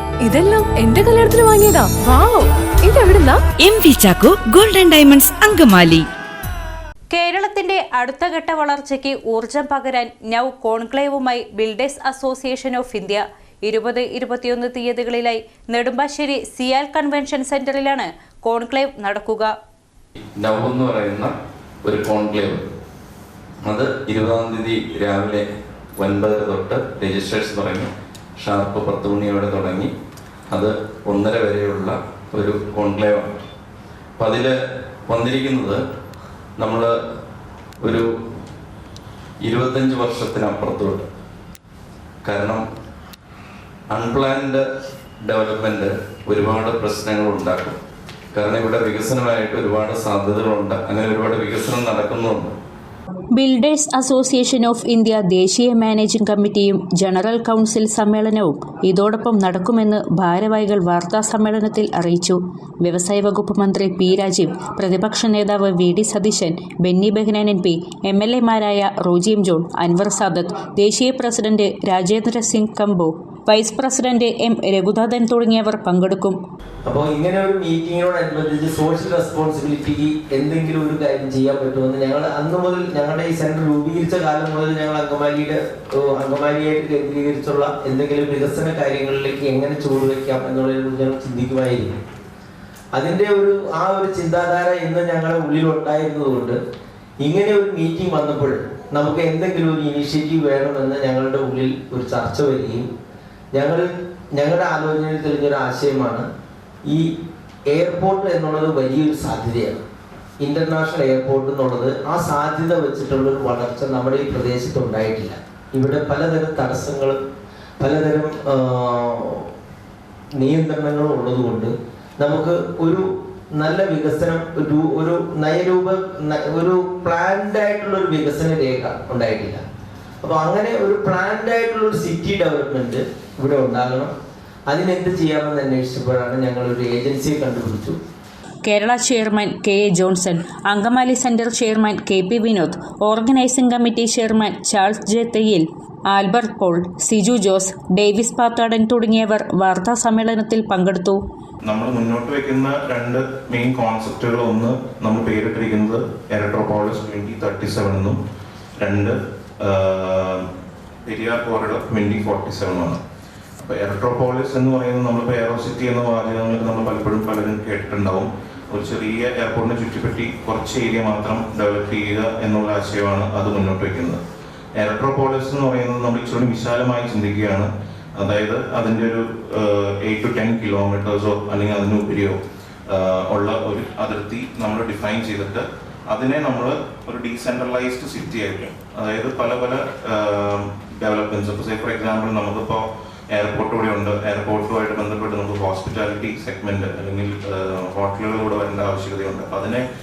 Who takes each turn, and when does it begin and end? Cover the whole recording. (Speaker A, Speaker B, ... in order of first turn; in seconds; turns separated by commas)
Speaker A: 0.2-3.4, Speaker B: 3.6-6.0, Speaker C: 7.1-19.5, Speaker D: 20.2-21.3, Speaker D: 21.8-22.6, Speaker D: 23.6-29.9, Speaker D: 30.5-33.3, Speaker D: 34.2-34.5, Speaker D: 35.1-35.8, Speaker D: 36.6-36.9, Speaker D: 39.4-41.1, Speaker D: 42.2-42.6, Speaker D: 43.9-44.6, Speaker D: 45.2-47.8, Speaker D: 48.3-52.5, Speaker C: 53.3-76.4, Speaker E: 76.8-92.0, Speaker E: 92.9-96.6, Speaker E: 97.2-102.8, Speaker E: 103.5-106.2, Speaker E: 107.7-109.8, Speaker E: 110.4-117.2, Speaker E: 117.8-119.5, Speaker E: 120.3-129.6, Speaker E: 130.2-134.1, Speaker E: 134.7-138.0, Speaker C: 138.6-151.2, Speaker F: 151.6-158.2, Speaker F: 158.8-160.4, Speaker F: 161.1-163.0, Speaker F: 163.6-174.2, Speaker F: 174.8-182.3, Speaker F: 182.9-199.8